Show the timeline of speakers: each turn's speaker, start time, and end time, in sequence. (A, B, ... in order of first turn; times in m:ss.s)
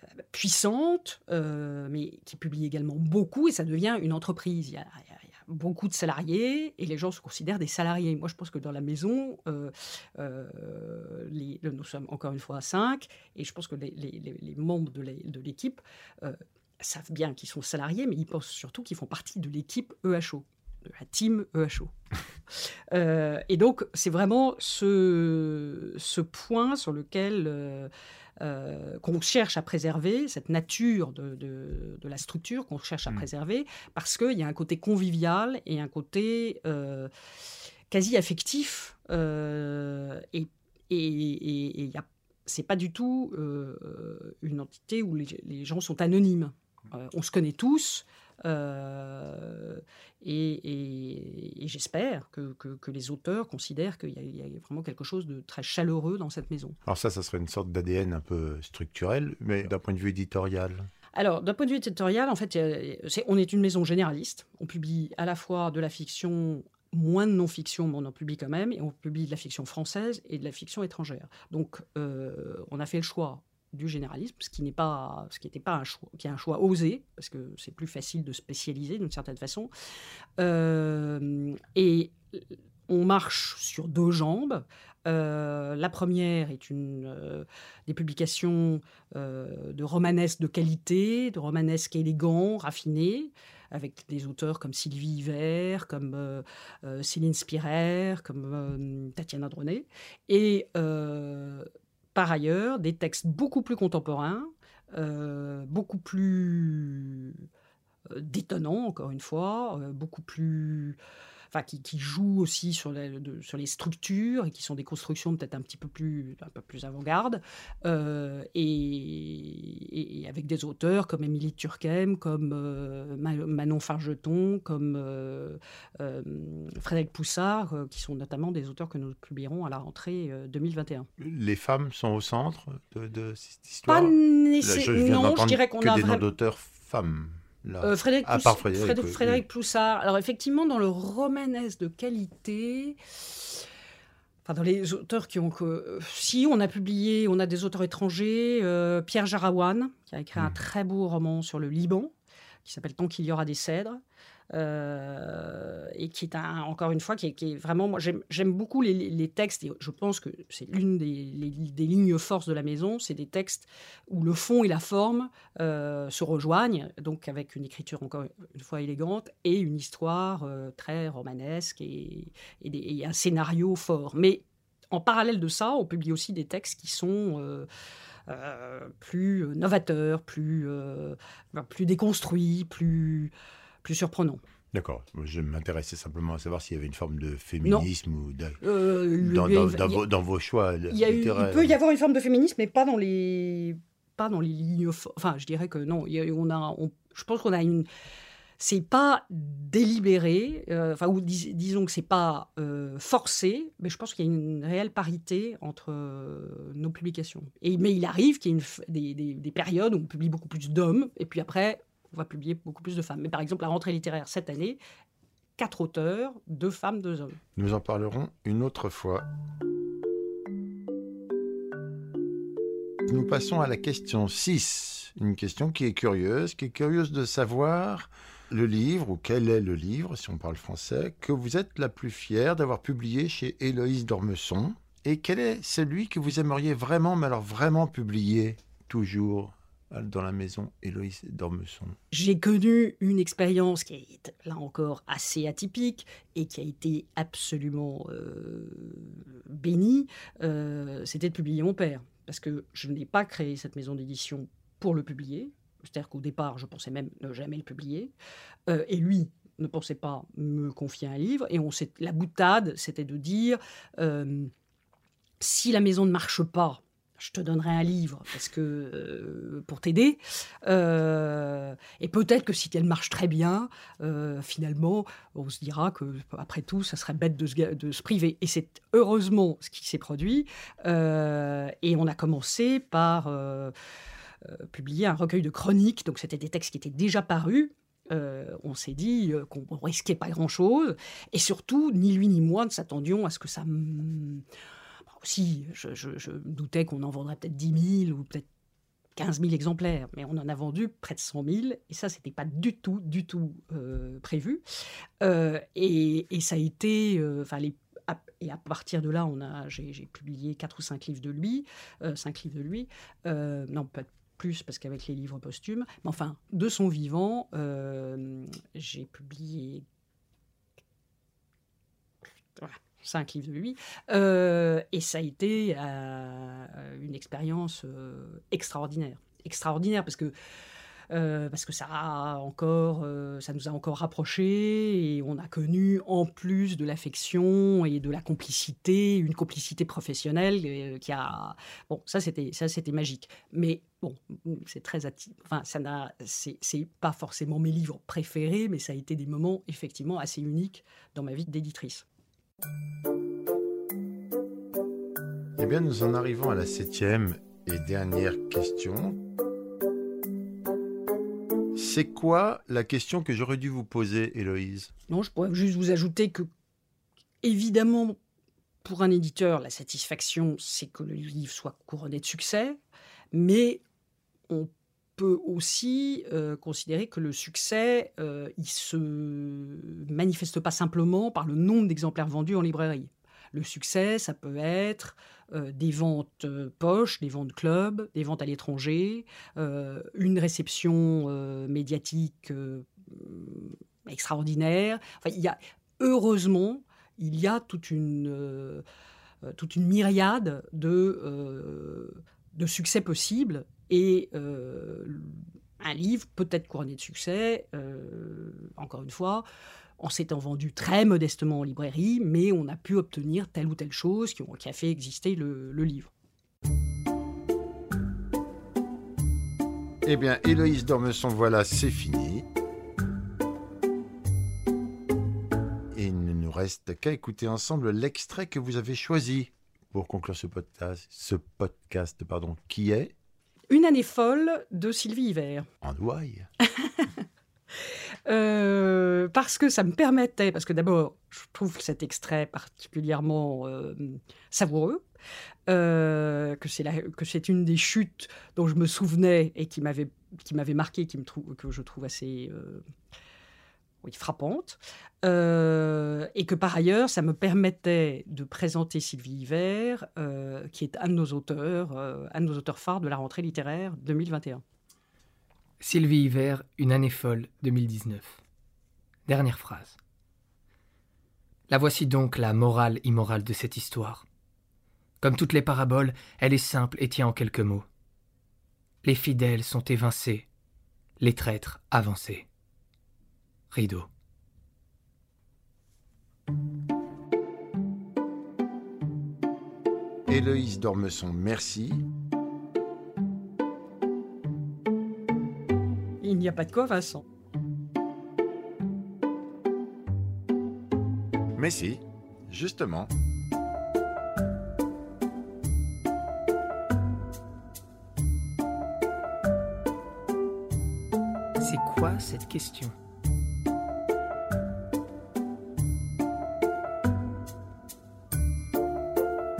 0:00.3-0:21.9 A
0:22.9-0:37.1 A
0:37.9-0:56.8 A
0:56.9-1:00.9 B
1:01.1-1:19.7 A
1:20.4-1:47.4 A
1:48.1-1:51.0 A
1:51.5-2:11.1 A
2:11.2-2:19.4 B
2:13.9-2:16.2 A
2:17.8-2:23.6 A
2:24.4-2:32.1 A
2:32.6-2:34.0 A
2:34.5-2:57.6 A
2:58.3-3:03.3 A
3:03.8-3:04.4 A
3:04.7-3:08.6 B
3:07.6-3:07.9 A
3:08.6-3:10.0 A
3:09.2-3:11.8 B
3:10.9-3:17.9 A
3:18.6-3:34.8 A
3:35.6-3:37.4 A
3:37.6-3:39.2 B
3:43.1-4:02.0 B
4:02.1-4:18.1 A
4:18.7-4:24.5 A
4:25.4-4:43.7 A
4:44.4-4:54.4 A
4:55.2-4:58.4 A
4:59.2-5:04.6 A
5:05.2-5:19.8 A
5:22.6-5:30.3 A
5:31.1-5:52.0 A
5:55.6-5:59.2 B
6:01.7-6:04.9 B
6:05.1-6:06.5 A
6:07.4-6:08.2 A
6:08.8-6:12.8 A
6:13.3-6:13.8 A
6:14.5-6:38.8 A
6:39.4-6:49.4 A
6:50.0-6:56.1 A
7:00.0-7:02.4 B
7:05.9-7:13.1 B
7:13.7-7:15.6 A
7:15.8-7:16.5 B
7:16.7-7:17.2 A
7:18.2-7:25.0 A
7:25.7-7:32.8 A
7:34.0-7:44.6 A
7:45.8-7:48.4 C
7:49.3-7:50.0 C
7:51.7-7:54.2 C
7:55.2-7:57.8 C
7:59.0-8:00.5 C
8:01.2-8:02.5 C
8:03.7-8:04.1 C
8:10.3-8:12.0 B
8:16.2-8:17.2 A
8:21.6-8:23.1 B
8:31.6-8:32.9 C